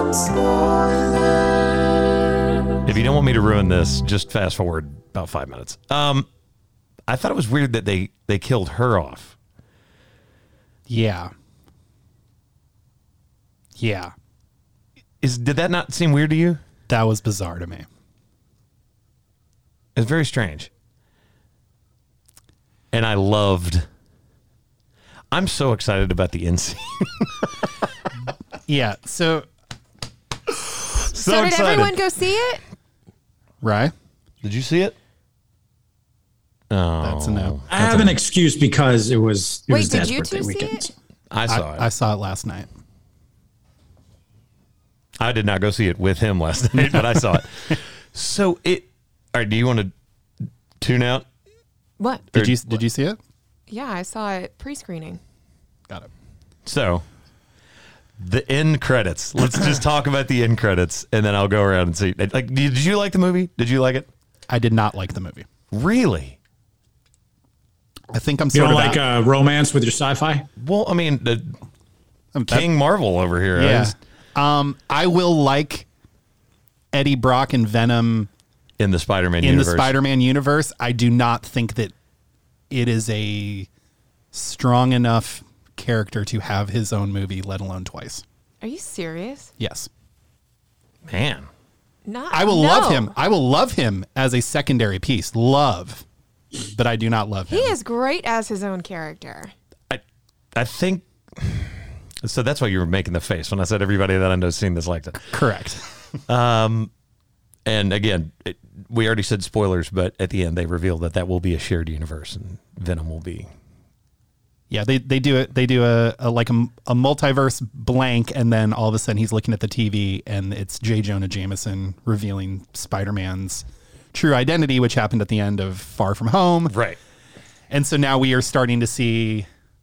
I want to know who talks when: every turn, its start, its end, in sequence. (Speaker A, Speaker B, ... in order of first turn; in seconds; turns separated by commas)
Speaker A: 2.8-6.3, Speaker A: 7.1-9.3, Speaker B: 10.9-11.3, Speaker B: 13.8-14.1, Speaker A: 15.2-16.6, Speaker B: 16.9-17.9, Speaker A: 20.0-20.7, Speaker A: 22.9-23.9, Speaker A: 25.3-27.5, Speaker B: 28.7-29.5, Speaker A: 30.6-32.0, Speaker C: 31.1-32.6, Speaker B: 33.6-33.9, Speaker A: 34.4-35.0, Speaker A: 36.7-38.2, Speaker B: 37.0-37.6, Speaker D: 37.7-40.9, Speaker C: 39.7-40.9, Speaker A: 41.3-41.9, Speaker B: 41.5-42.7, Speaker A: 45.2-49.9, Speaker A: 50.8-51.3, Speaker C: 52.0-52.3, Speaker A: 52.3-52.8, Speaker B: 52.3-53.2, Speaker C: 53.7-55.2, Speaker A: 56.6-57.0, Speaker A: 58.2-64.1, Speaker B: 64.5-65.5, Speaker A: 65.7-66.4, Speaker B: 68.1-69.0, Speaker D: 68.5-70.5, Speaker A: 70.6-71.6, Speaker B: 72.3-72.7, Speaker A: 72.5-74.0, Speaker B: 73.6-75.9, Speaker B: 76.9-78.3, Speaker A: 78.8-80.0, Speaker B: 79.4-81.9, Speaker B: 82.7-83.7, Speaker B: 84.3-88.2, Speaker C: 88.6-89.5, Speaker B: 89.6-89.9, Speaker A: 91.1-91.5, Speaker C: 92.1-93.1, Speaker B: 92.3-96.0, Speaker B: 96.7-97.7, Speaker C: 97.5-99.5, Speaker A: 100.5-105.3, Speaker B: 105.3-105.8, Speaker A: 106.3-106.9, Speaker A: 107.7-113.5, Speaker B: 114.7-126.8, Speaker A: 126.7-127.0, Speaker B: 127.7-129.5